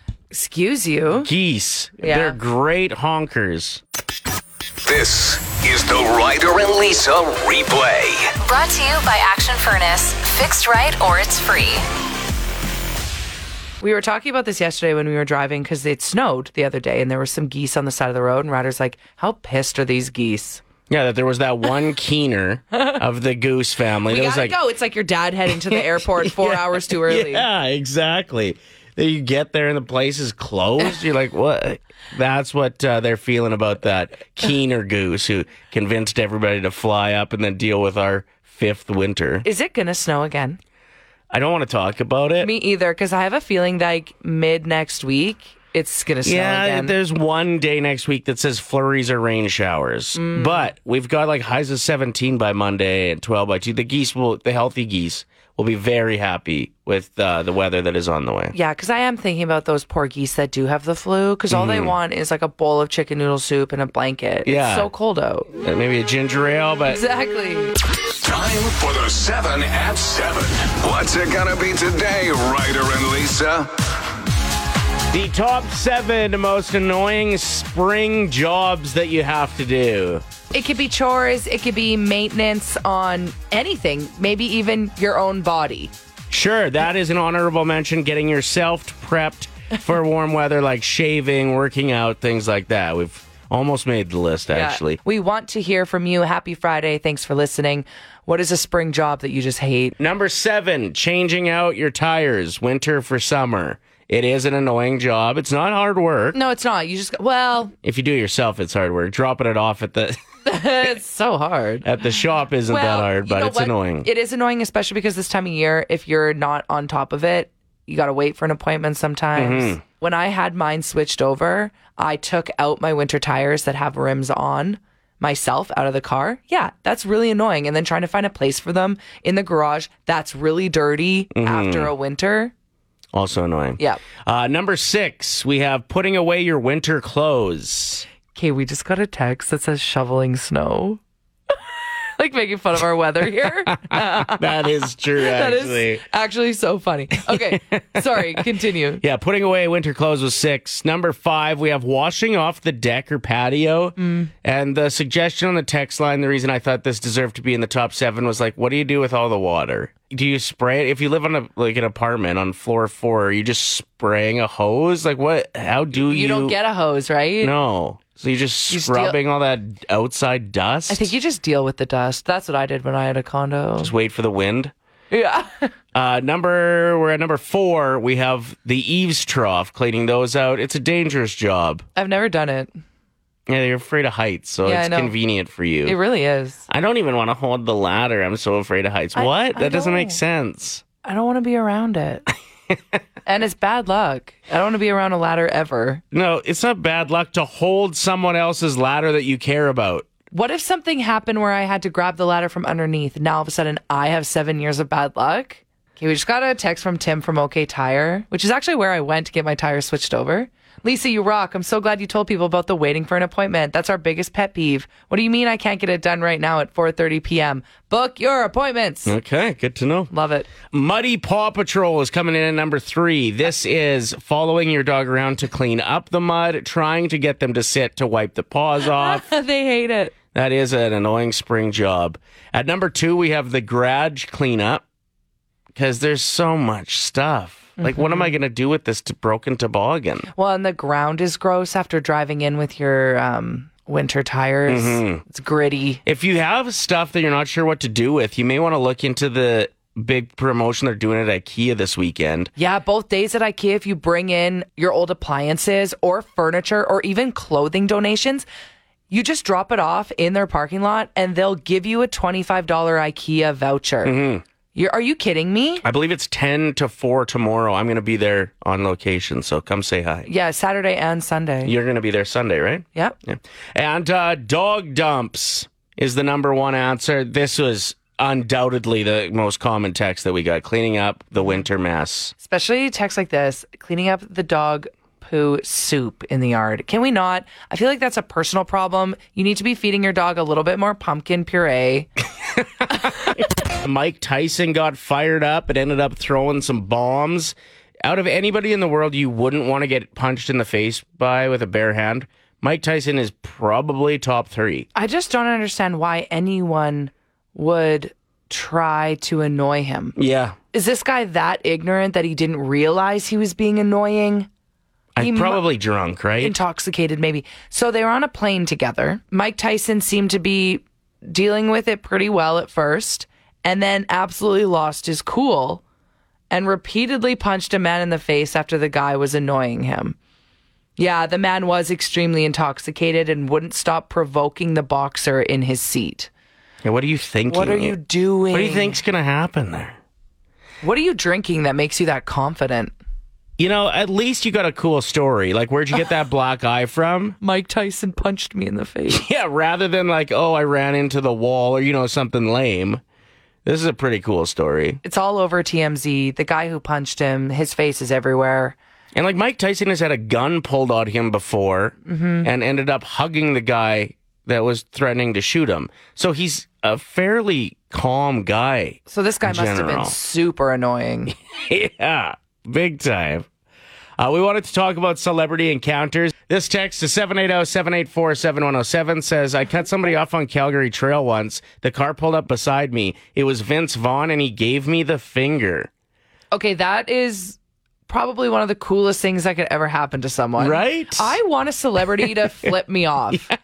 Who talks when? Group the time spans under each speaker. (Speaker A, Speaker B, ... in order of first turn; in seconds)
Speaker A: 0.3-1.3, 2.0-2.4, 13.8-20.6, 24.1-27.5, 39.4-40.6, 42.4-47.0, 50.1-50.7, 58.5-65.5, 66.9-67.7, 80.5-85.9, 94.5-100.0, 106.3-107.7, 110.4-111.8, 112.7-132.5, 138.3-141.0, 142.2-149.0, 154.0-154.3, 166.1-167.5, 168.7-169.2, 170.9-173.9, 175.1-175.7, 181.9-182.8, 184.6-185.1, 185.8-186.6, 189.1-190.2, 191.0-192.2, 193.2-196.0, 200.3-219.2, 220.1-220.5, 228.9-230.1, 237.8-238.3, 240.3-246.0, 252.6-258.4, 259.1-264.1, 264.7-265.8, 270.3-271.7, 282.4-292.1, 304.9-310.1, 310.7-314.5, 315.2-315.6, 316.4-325.8, 326.5-330.2, 331.0-336.3, 337.5-339.0, 340.8-342.9, 347.4-349.2, 355.0-358.8, 362.1-362.5, 369.1-371.3, 386.5-387.6, 388.1-393.5
Speaker B: 1.1-3.8, 20.9-24.6, 25.5-39.4, 41.3-42.5, 46.2-58.5, 61.5-61.9, 64.5-64.9, 65.6-67.0, 75.1-80.2, 86.3-95.0, 100.0-106.4, 107.8-110.2, 111.8-114.1, 119.3-119.8, 131.3-131.9, 133.1-138.1, 143.9-146.0, 149.0-166.6, 167.4-171.1, 173.8-174.7, 175.9-181.8, 183.5-185.9, 186.7-190.8, 196.1-200.1, 219.1-220.1, 220.7-229.2, 230.3-234.8, 235.7-240.3, 244.7-245.2, 246.1-252.5, 264.0-264.4, 265.8-270.3, 271.6-282.3, 292.8-304.9, 310.1-310.6, 315.1-316.5, 336.8-338.0, 338.5-340.0, 343.6-347.4, 349.1-353.0, 353.6-355.0, 359.1-370.1, 371.5-373.5, 374.2-385.9, 390.6-391.4
Speaker C: 4.8-8.2, 68.2-73.7
Speaker D: 8.4-11.8